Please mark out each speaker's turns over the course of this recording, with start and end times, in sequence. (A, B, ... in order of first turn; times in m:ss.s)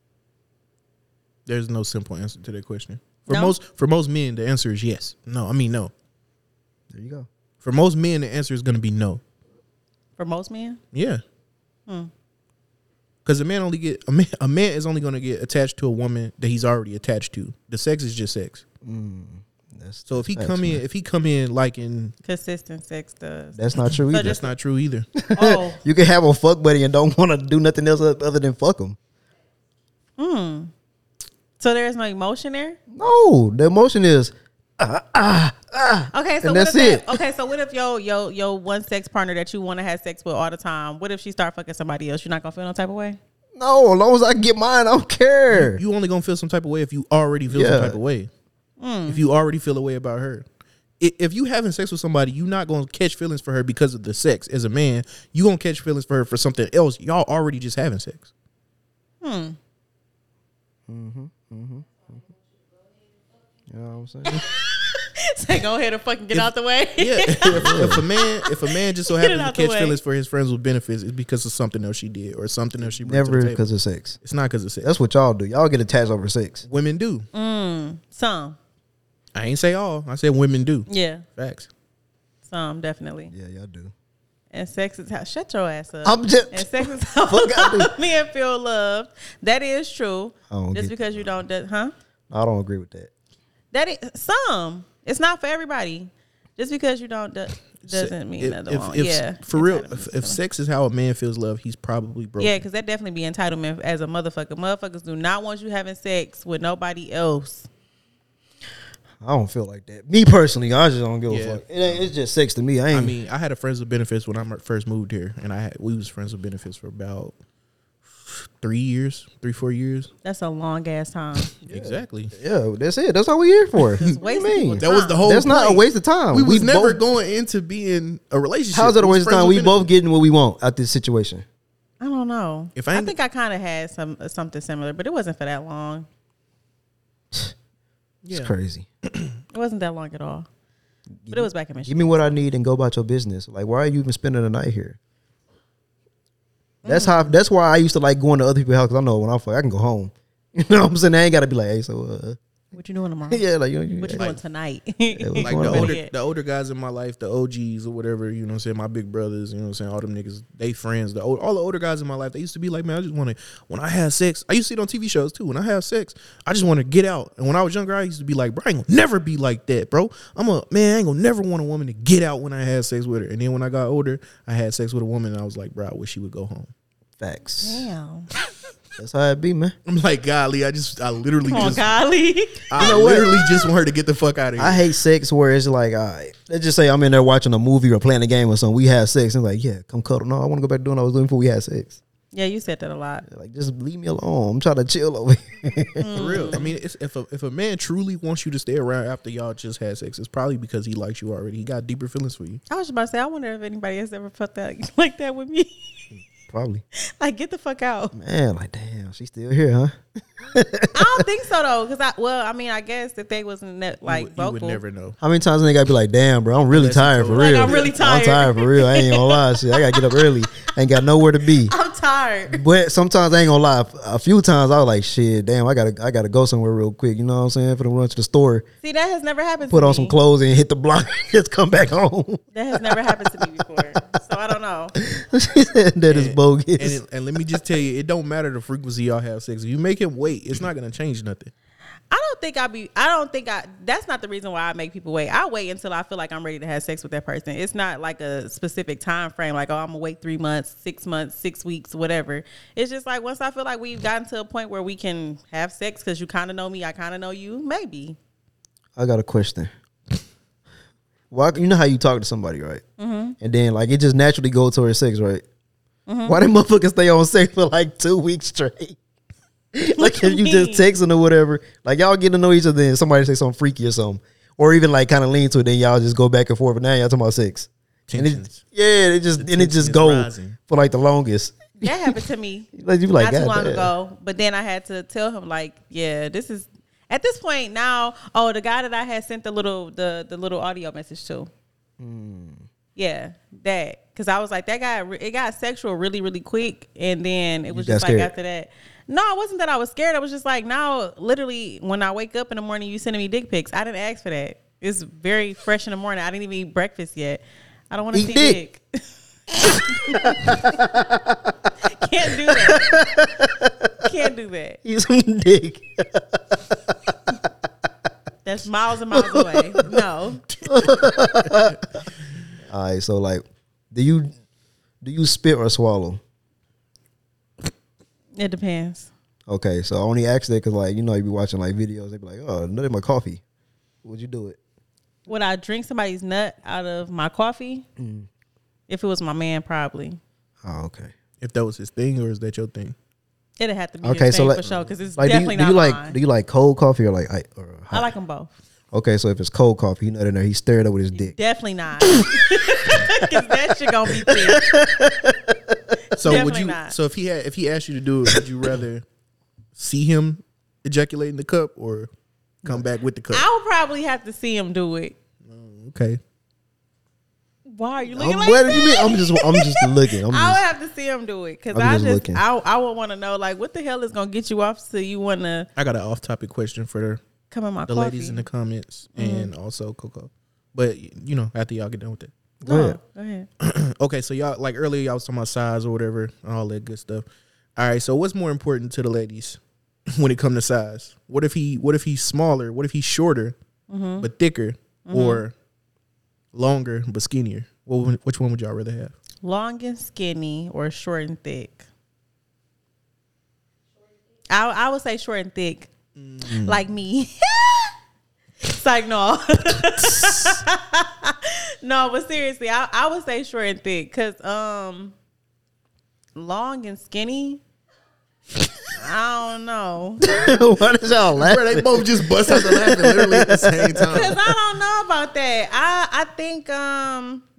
0:01.5-0:05.9 A
0:03.3-0:03.5 B
0:06.9-0:07.3 C
0:07.6-0:09.2 A
0:10.2-0:10.8 B
0:10.9-0:11.2 A
0:13.2-0:18.6 A
0:18.8-0:20.8 C
0:20.0-0:22.2 A
0:22.2-0:24.5 B
0:23.6-0:24.4 C
0:24.1-0:25.1 A
0:25.2-0:29.0 C
0:25.3-0:25.8 B
0:30.2-0:30.7 B
0:31.6-0:32.8 B
0:32.9-0:37.2 C
0:36.1-0:43.2 B
0:43.6-0:45.8 C
0:45.5-0:48.3 A
0:47.5-0:48.0 C
0:48.8-0:49.2 B
0:49.1-0:50.4 A
0:51.0-0:58.3 A
0:59.2-0:59.6 B
1:00.9-1:02.2 C
1:03.7-1:04.4 C
1:04.3-1:10.0 B
1:06.3-1:13.6 A
1:07.5-1:08.0 C
1:12.8-1:14.2 C
1:14.2-1:14.9 A
1:14.8-1:16.6 C
1:16.7-1:17.3 A
1:17.3-1:18.6 B
1:19.3-1:21.7 A
1:20.9-1:21.2 B
1:22.4-1:23.3 B
1:23.3-1:23.9 C
1:24.5-1:31.9 B
1:26.0-1:28.0 C
1:30.5-1:31.4 C
1:32.3-1:33.1 C
1:33.7-1:40.4 B
1:37.8-1:42.6 A
1:42.4-1:47.7 B
1:49.2-1:53.2 C
1:51.3-1:52.1 A
1:52.9-1:57.3 A
1:58.2-2:00.1 A
2:00.2-2:01.5 B
2:01.6-2:02.3 A
2:01.7-2:07.0 C
2:03.8-2:04.1 A
2:04.0-2:05.2 B
2:04.8-2:09.9 A
2:08.7-2:11.4 C
2:12.0-2:16.1 B
2:12.8-2:13.1 A
2:18.2-2:18.5 A
2:18.3-2:18.9 C
2:19.5-2:20.5 B
2:21.2-2:25.0 C
2:21.3-2:22.4 B
2:26.8-2:27.3 B
2:26.8-2:32.4 C
2:32.7-2:33.4 B
2:33.3-2:34.3 C
2:34.0-2:36.1 B
2:35.1-2:36.0 C
2:35.4-2:56.7 A
2:57.2-2:57.8 C
2:57.6-2:58.3 B
2:59.0-2:59.8 C
2:59.8-3:01.9 A
3:01.5-3:03.6 B
3:02.7-3:04.8 A
3:02.8-3:03.3 C
3:04.6-3:12.0 C
3:12.3-3:13.2 B
3:13.2-3:16.6 C
3:16.0-3:16.6 B
3:16.1-3:22.6 A
3:22.7-3:25.9 B
3:26.5-3:26.8 C
3:27.2-3:28.1 B
3:28.1-3:31.2 C
3:30.9-3:34.8 B
3:34.0-3:35.2 A
3:35.2-3:41.7 C
3:36.7-3:37.9 A
3:37.3-3:40.7 B
3:41.6-3:42.6 B
3:42.5-3:48.6 C
3:48.8-3:50.2 B
3:49.7-3:53.3 C
3:52.5-3:55.0 B
3:55.0-3:57.0 C
3:56.1-4:01.5 A
4:02.1-4:18.2 B
4:19.0-4:19.7 C
4:21.3-4:22.8 C
4:23.0-4:23.4 B
4:23.4-4:25.4 C
4:26.1-4:26.4 B
4:26.2-4:29.0 C
4:29.7-4:42.2 C
4:29.9-4:30.8 B
4:38.1-4:38.6 A
4:39.4-4:40.6 A
4:41.8-4:51.5 B
4:42.7-4:43.9 C
4:52.0-4:52.6 C
4:53.0-5:08.8 B
4:57.7-4:58.3 C
5:08.1-5:08.6 C
5:09.6-5:10.8 B
5:10.0-5:11.5 C
5:11.8-5:13.0 B
5:12.4-5:14.1 C
5:14.0-5:14.8 B
5:14.8-5:16.8 C
5:18.4-5:20.4 B
5:19.1-5:19.9 C
5:20.5-5:21.7 A
5:20.6-5:21.8 C
5:22.7-5:24.3 C
5:25.0-5:26.2 C
5:28.4-5:29.1 B
5:29.5-5:33.4 C
5:34.0-5:34.6 C
5:35.3-5:37.8 B
5:38.0-5:38.3 C
5:38.9-5:40.2 B
5:40.6-5:41.1 C
5:41.4-5:43.0 A
5:43.6-5:46.2 B
5:44.0-5:48.1 C
5:47.9-5:48.5 B
5:48.9-5:51.3 C
5:51.1-5:54.7 B
5:52.0-5:53.5 C
5:54.0-5:55.9 C
5:56.2-5:59.0 A
5:56.2-5:57.0 B
5:59.8-6:02.1 A
6:02.6-6:03.5 A
6:03.3-6:05.2 B
6:05.4-6:06.2 A
6:07.7-6:15.7 B
6:08.1-6:10.6 C
6:11.7-6:12.4 C
6:15.8-6:17.2 A
6:17.5-6:18.4 B
6:17.9-6:22.3 A
6:19.2-6:19.5 B
6:22.6-6:23.0 C
6:22.6-6:23.5 B
6:23.6-6:27.2 A
6:27.8-6:33.6 A
6:33.9-6:34.3 B
6:34.2-6:35.5 A
6:35.1-6:35.4 B
6:36.5-6:39.1 A
6:39.4-6:41.8 B
6:44.5-6:45.9 B
6:46.2-6:46.8 A
6:46.4-6:47.9 B
6:48.6-6:55.1 B
6:56.3-6:57.6 B
6:58.9-7:00.3 B
7:00.2-7:04.3 C
7:01.3-7:04.4 A
7:04.1-7:07.4 B